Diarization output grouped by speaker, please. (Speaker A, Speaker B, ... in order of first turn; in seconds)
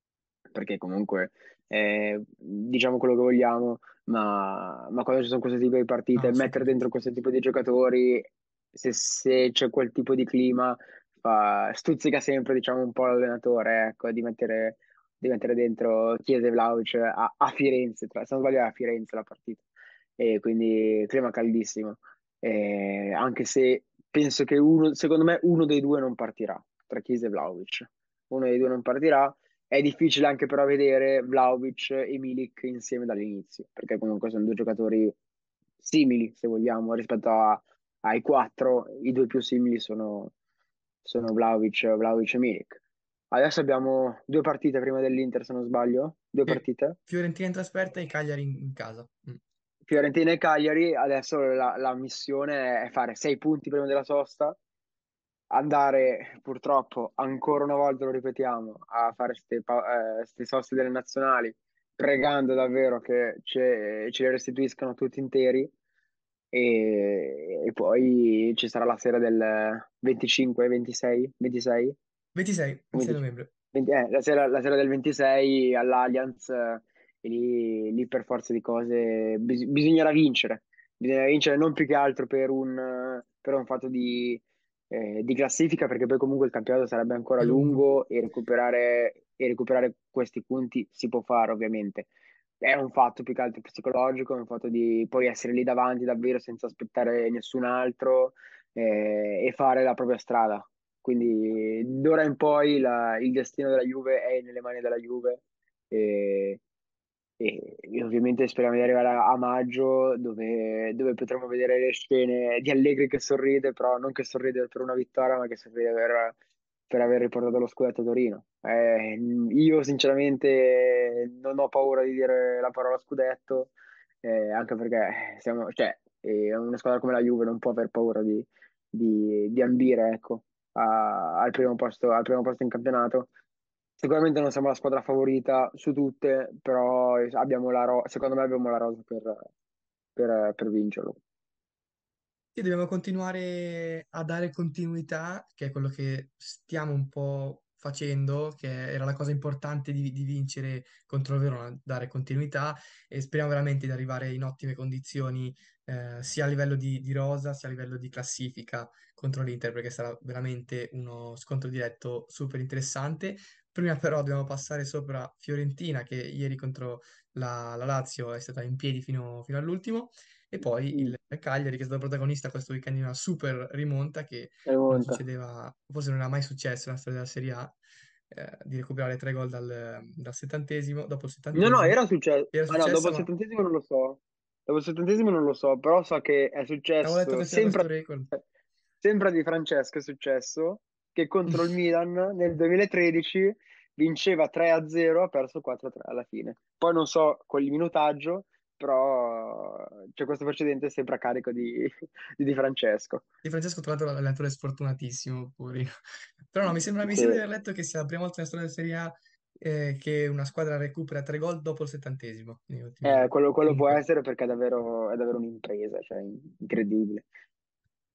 Speaker A: 0.5-19.6, 20.2-35.1, 35.8-40.3, 41.0-42.8, 43.3-47.0, 49.9-54.6, 55.5-65.7, 66.5-71.9, 72.9-73.2, 73.7-92.1, 92.6-106.6, 107.4-116.3, 116.9-123.7, 124.2-133.3, 134.0-139.3, 140.2-141.2, 174.7-175.2, 181.5-188.3, 189.0-203.2, 207.0-207.4, 213.0-217.3
Speaker B: 6.1-6.8, 46.5-49.4, 72.3-73.5, 87.4-87.8, 142.5-177.8, 178.3-182.0, 182.5-183.3, 187.0-188.3, 203.4-205.9, 206.5-214.0